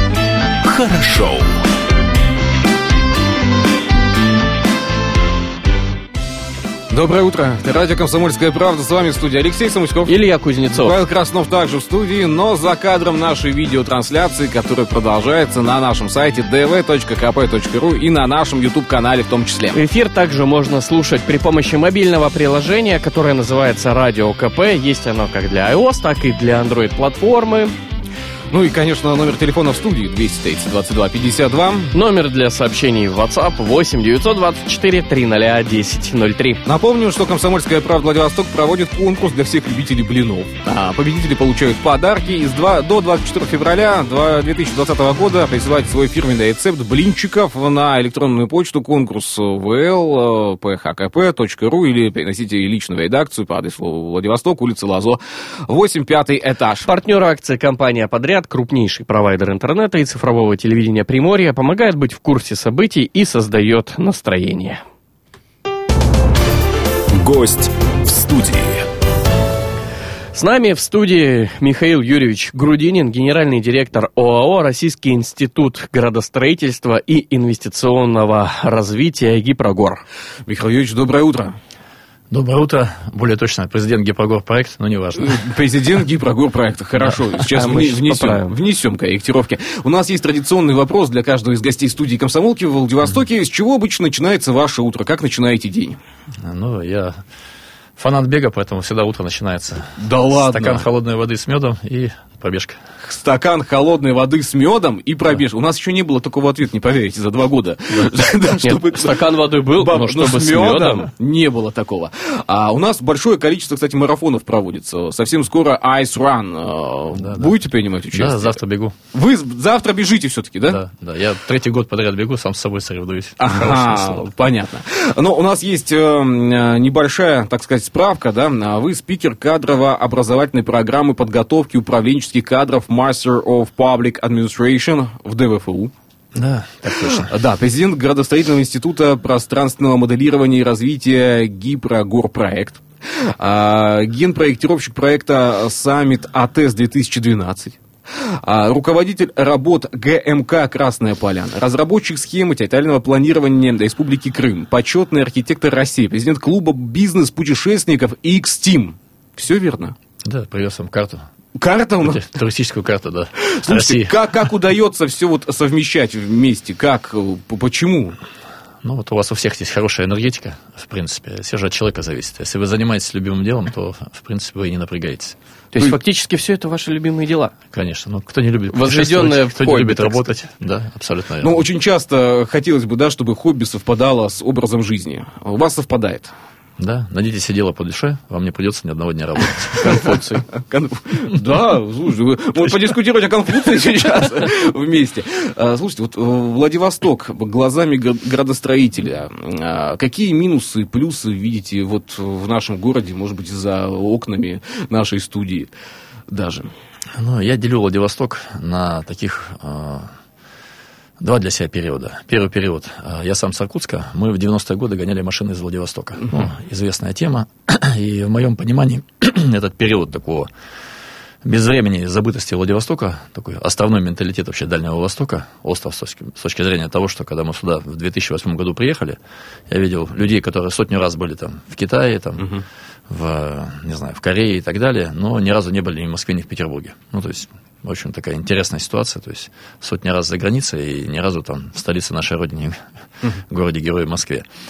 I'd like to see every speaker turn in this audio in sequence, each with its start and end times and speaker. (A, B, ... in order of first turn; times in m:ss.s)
0:00.6-0:01.5 A
0:06.9-0:10.1 B
0:10.1-0:10.9 C
0:10.7-0:19.8 B
0:19.7-0:27.7 C
0:28.5-0:31.9 B
0:31.9-0:36.6 C
0:36.6-0:56.9 B
0:56.9-1:04.8 C
1:07.1-1:08.8 A
1:10.3-1:20.0 C
1:20.5-1:21.6 B
1:22.3-1:25.4 D
1:25.2-1:36.0 B
1:27.4-1:28.5 C
1:36.4-1:37.2 D
1:38.0-1:42.8 D
1:40.0-1:40.8 B
1:43.0-1:58.6 B
1:48.5-1:51.1 C
1:57.2-1:57.5 D
1:58.1-1:58.9 D
1:59.1-2:00.8 B
2:00.7-2:04.3 D
2:03.4-2:15.9 B
2:16.3-2:17.3 D
2:17.2-2:40.0 B
2:40.2-2:41.2 D
2:41.5-2:42.2 B
2:42.0-2:44.3 D
2:43.4-2:48.2 B
2:48.8-2:55.9 D
2:55.7-2:57.5 C
2:57.7-3:01.6 D
2:58.7-3:00.3 C
3:01.4-3:06.3 B
3:06.8-3:10.1 D
3:09.8-3:25.7 B
3:26.3-3:26.7 B
3:27.2-3:30.1 D
3:31.2-3:40.5 D
3:41.4-3:49.2 D
3:49.7-4:02.8 D
4:03.5-4:04.4 D